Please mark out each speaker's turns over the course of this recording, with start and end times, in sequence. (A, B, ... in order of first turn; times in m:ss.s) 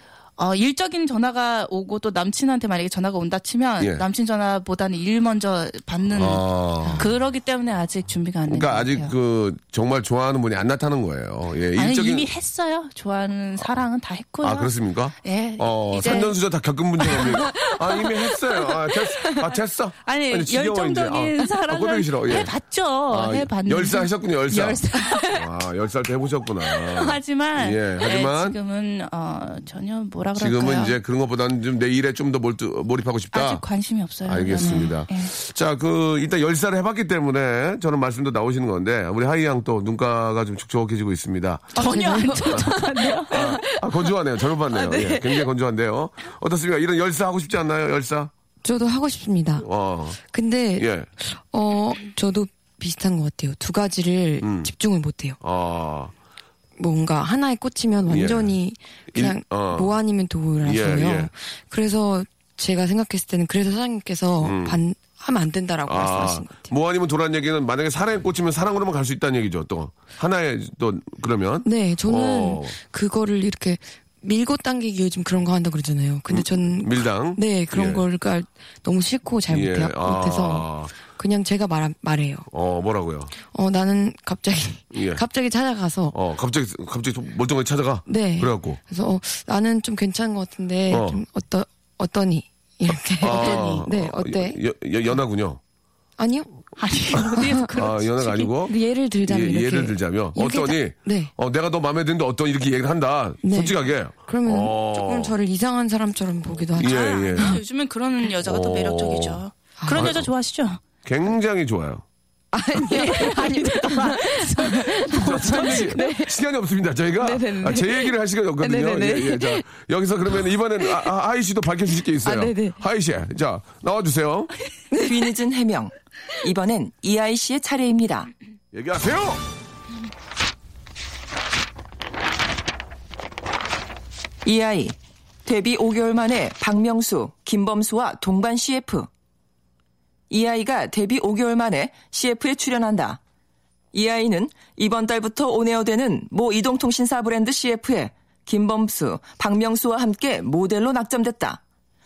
0:00.4-0:09.1 A
0:06.1-0:07.1 B
0:08.5-0:12.3 B
0:11.8-0:16.4 A
0:14.4-0:22.5 B
0:17.1-0:18.1 A
0:20.0-0:25.4 A
0:23.1-0:28.6 B
0:26.7-0:31.0 A
0:30.4-0:33.6 B
0:33.3-0:35.3 A
0:34.2-0:48.3 B
0:34.6-0:34.9 C
0:41.8-0:43.6 A
0:41.8-0:45.5 C
0:48.6-0:49.7 C
0:49.6-0:50.2 B
0:50.2-0:55.4 C
0:50.8-0:51.1 B
0:54.4-0:54.7 B
0:55.4-0:56.1 B
0:56.8-1:06.7 C
0:58.1-0:58.5 B
0:59.1-0:59.9 B
1:00.6-1:01.3 B
1:04.4-1:04.8 B
1:05.9-1:12.8 B
1:11.6-1:22.5 C
1:16.3-1:18.0 B
1:19.5-1:20.9 B
1:22.5-1:23.3 B
1:23.4-1:26.2 C
1:24.9-1:25.2 B
1:26.1-1:28.8 B
1:28.1-1:34.6 C
1:30.9-1:31.2 B
1:33.2-1:35.6 B
1:33.2-1:33.9 A
1:36.2-1:36.5 C
1:36.8-1:38.5 A
1:37.7-1:45.3 B
1:38.6-1:41.3 C
1:43.4-1:47.5 C
1:46.8-1:47.6 B
1:46.8-1:50.8 A
1:48.4-1:49.4 B
1:49.8-1:50.1 C
1:49.9-1:50.3 B
1:51.0-1:52.0 B
1:52.5-1:56.3 C
1:52.9-1:56.0 A
1:55.1-2:04.5 B
1:57.2-1:59.7 C
2:02.2-2:02.8 C
2:04.9-2:05.2 C
2:05.0-2:08.3 D
2:08.7-2:09.4 B
2:14.4-2:19.1 D
2:20.3-2:23.2 D
2:23.9-2:31.6 D